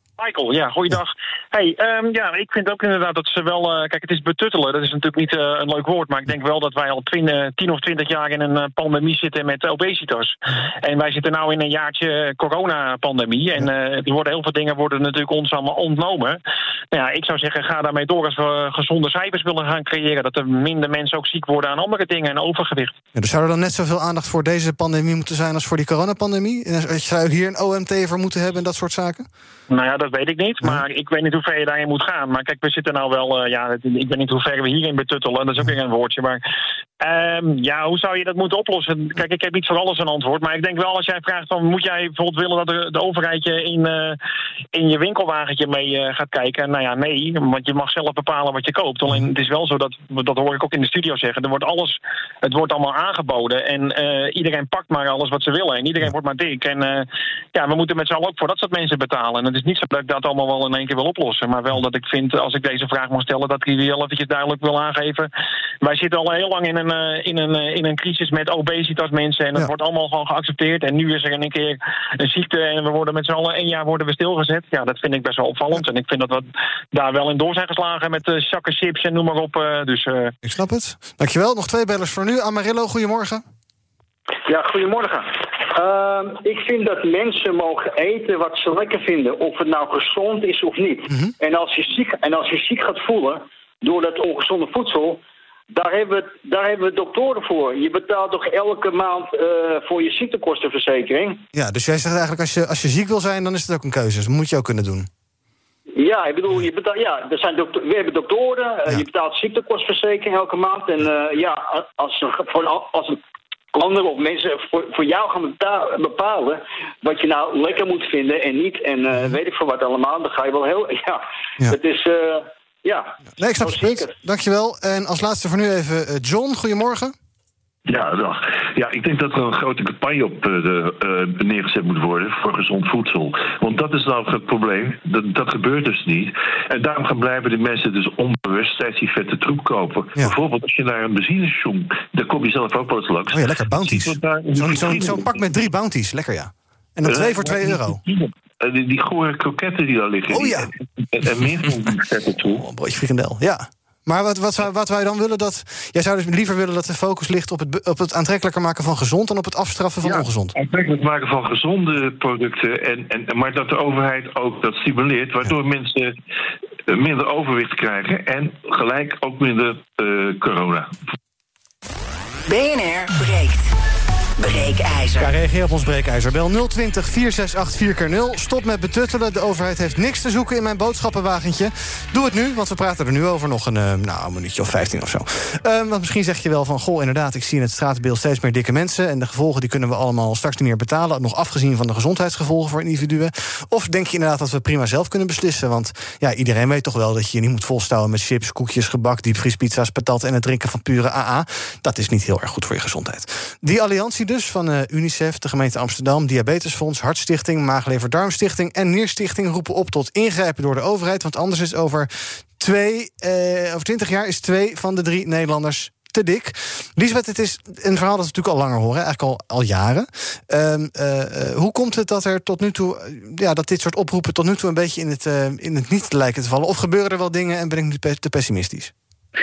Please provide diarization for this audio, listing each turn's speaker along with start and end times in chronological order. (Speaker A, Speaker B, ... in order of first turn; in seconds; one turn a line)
Speaker A: 0.2-16.4
Speaker A: 16.9-22.9
Speaker B: 23.1-29.3
Speaker A: 29.7-36.4
Speaker A: 37.0-44.2
Speaker A: 44.7-65.3
Speaker A: 65.8-80.3
Speaker B: 80.4-83.4
Speaker C: 84.5-95.2
Speaker C: 95.7-101.4
Speaker B: 101.5-105.1
Speaker C: 106.0-113.2
Speaker C: 113.7-124.1
Speaker B: 123.4-127.1
Speaker D: 127.9-145.4
Speaker B: 143.3-148.0
Speaker D: 147.1-152.6
Speaker B: 150.3-150.7
Speaker B: 152.6-160.5
Speaker D: 160.0-166.1
Speaker D: 166.9-170.9
Speaker E: 172.4-173.7
Speaker E: 174.4-175.3
Speaker B: 175.2-228.9